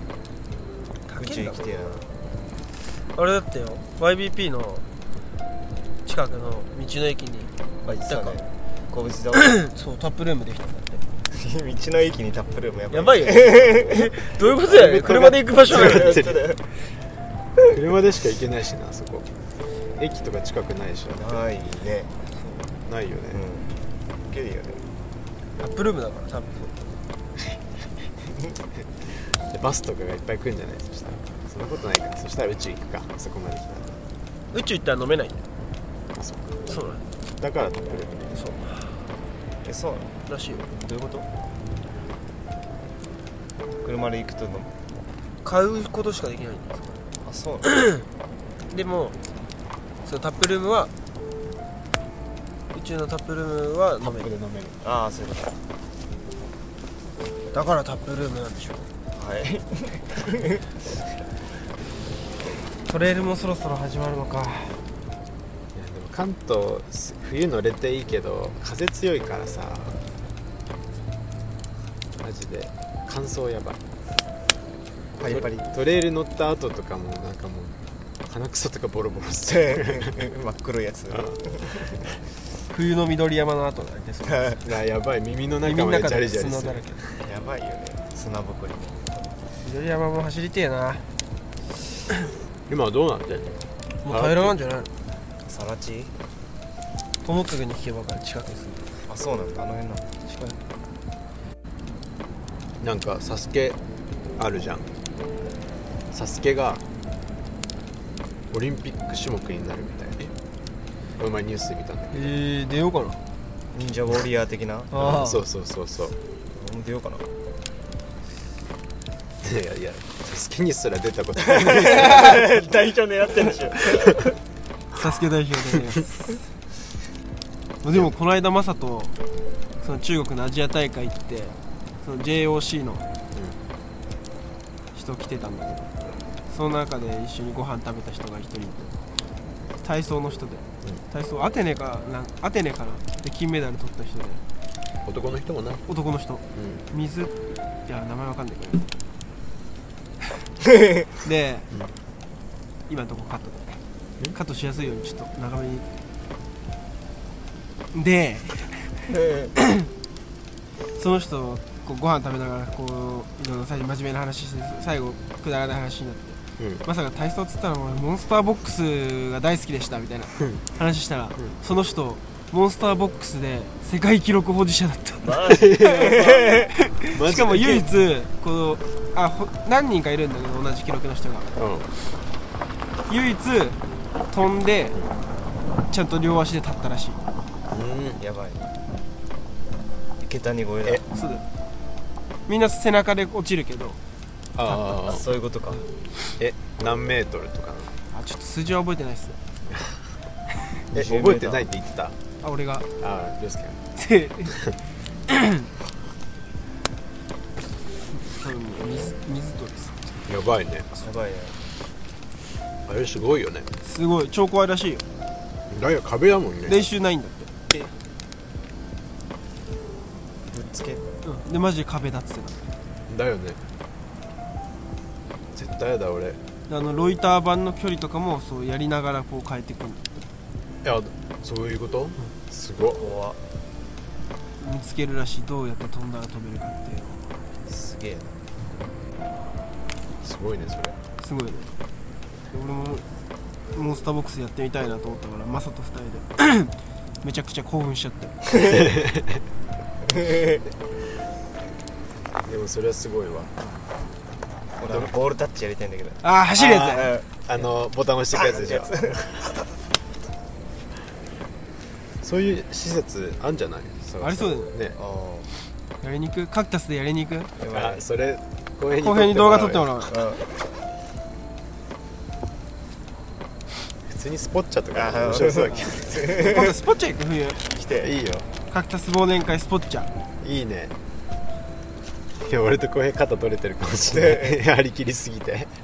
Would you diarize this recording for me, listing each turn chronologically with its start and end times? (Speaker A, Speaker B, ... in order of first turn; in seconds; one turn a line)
Speaker A: 1.1-1.7
Speaker B: 1.1-2.1
Speaker A: 3.1-4.8
Speaker A: 6.0-8.4
Speaker B: 7.8-9.6
Speaker A: 9.3-11.0
Speaker B: 11.3-16.6
Speaker A: 12.9-16.3
Speaker C: 14.8-16.4
Speaker C: 17.7-19.3
Speaker C: 20.0-21.4
Speaker B: 21.1-22.1
Speaker A: 22.3-22.6
Speaker C: 22.9-23.4
Speaker B: 23.3-23.7
Speaker B: 24.3-24.8
Speaker A: 25.6-26.9
Speaker C: 29.3-34.0
Speaker A: 34.5-35.4
Speaker C: 36.1-36.7
Speaker A: 36.7-37.0
Speaker C: 37.4-38.4
Speaker A: 38.3-38.9
Speaker B: 39.6-40.1
Speaker A: 40.2-40.6
Speaker B: 40.7-41.3
Speaker B: 43.8-44.7
Speaker A: 45.4-47.0
Speaker B: 47.2-47.7
Speaker A: 47.6-48.0
Speaker A: 48.7-49.2
Speaker A: 50.0-50.9
Speaker A: 52.7-54.3
Speaker C: 54.0-54.8
Speaker B: 54.8-55.5
Speaker A: 57.5-58.9
Speaker B: 59.1-60.6
Speaker A: 62.9-64.8
Speaker C: 65.7-70.0
Speaker C: 72.2-73.8
Speaker B: 75.2-75.7
Speaker C: 75.2-77.7
Speaker C: 78.2-80.2
Speaker B: 79.5-82.1
Speaker A: 82.7-84.6
Speaker B: 84.2-84.6
Speaker C: 84.6-87.1
Speaker A: 85.6-87.0
Speaker B: 87.2-89.4
Speaker A: 89.6-91.0
Speaker C: 92.7-94.5
Speaker A: 94.0-94.9
Speaker B: 95.5-96.1
Speaker A: 97.2-98.9
Speaker B: 99.1-100.1
Speaker A: 100.2-100.6
Speaker C: 102.8-103.8
Speaker C: 104.4-104.9
Speaker C: 106.1-106.8
Speaker C: 108.5-110.3
Speaker C: 111.2-112.3
Speaker A: 112.1-113.2
Speaker B: 113.7-114.9
Speaker A: 114.9-115.4
Speaker C: 114.9-116.2
Speaker B: 116.5-117.3
Speaker C: 119.4-122.5
Speaker B: 121.5-124.3
Speaker A: 124.9-126.4
Speaker A: 127.8-129.1
Speaker A: 129.8-133.1
Speaker A: 134.9-135.9
Speaker A: 136.5-138.9
Speaker A: 139.8-144.4
Speaker C: 145.0-145.8
Speaker A: 145.9-147.3
Speaker C: 146.5-146.8
Speaker A: 147.9-148.9
Speaker A: 151.2-151.7
Speaker A: 152.9-153.8
Speaker A: 154.3-155.8
Speaker A: 157.9-159.0
Speaker A: 159.6-159.9
Speaker A: 161.0-181.5
Speaker B: 175.2-176.6
Speaker C: 175.6-176.2
Speaker C: 177.1-177.9
Speaker C: 181.6-181.9
Speaker A: 183.1-183.8
Speaker A: 184.3-185.0
Speaker A: 185.9-187.2
Speaker C: 187.7-188.2
Speaker B: 188.2-188.7
Speaker B: 190.2-191.0
Speaker A: 191.1-191.4
Speaker A: 192.5-194.0
Speaker C: 194.5-195.2
Speaker A: 194.7-194.9
Speaker B: 195.0-195.8
Speaker C: 196.4-197.9
Speaker A: 198.1-199.4
Speaker B: 200.9-201.7
Speaker C: 200.9-202.2
Speaker A: 202.4-202.8
Speaker C: 203.0-203.8
Speaker A: 203.9-204.6
Speaker A: 205.3-205.7
Speaker A: 208.2-210.0
Speaker C: 210.2-210.9
Speaker B: 210.9-211.6
Speaker C: 212.8-213.7
Speaker A: 213.8-215.0
Speaker C: 215.7-216.9
Speaker A: 216.7-217.7
Speaker B: 220.5-221.0
Speaker A: 221.2-222.6
Speaker C: 223.1-223.6
Speaker C: 225.5-226.4
Speaker A: 226.7-230.1
Speaker C: 230.8-233.0
Speaker B: 233.0-233.4
Speaker A: 234.6-237.3
Speaker B: 237.7-238.4
Speaker C: 240.2-241.0
Speaker A: 241.2-241.7
Speaker A: 242.5-243.0
Speaker A: 243.7-248.4
Speaker C: 248.7-249.4
Speaker B: 250.1-250.6
Speaker C: 252.4-253.5
Speaker B: 254.8-256.2
Speaker A: 256.2-257.1
Speaker C: 256.6-259.4
Speaker B: 256.9-257.2
Speaker B: 258.3-259.6
Speaker C: 262.2-265.0
Speaker A: 264.2-264.7
Speaker B: 265.0-265.5
Speaker A: 266.0-267.5
Speaker B: 267.6-268.0
Speaker C: 267.7-270.0
Speaker A: 269.0-270.2
Speaker B: 270.1-270.4
Speaker C: 274.1-276.1
Speaker B: 274.9-276.8
Speaker A: 275.7-277.6
Speaker B: 277.6-278.1
Speaker C: 277.9-278.5
Speaker A: 278.7-280.1
Speaker C: 280.4-280.9
Speaker C: 282.4-285.7
Speaker B: 284.1-284.6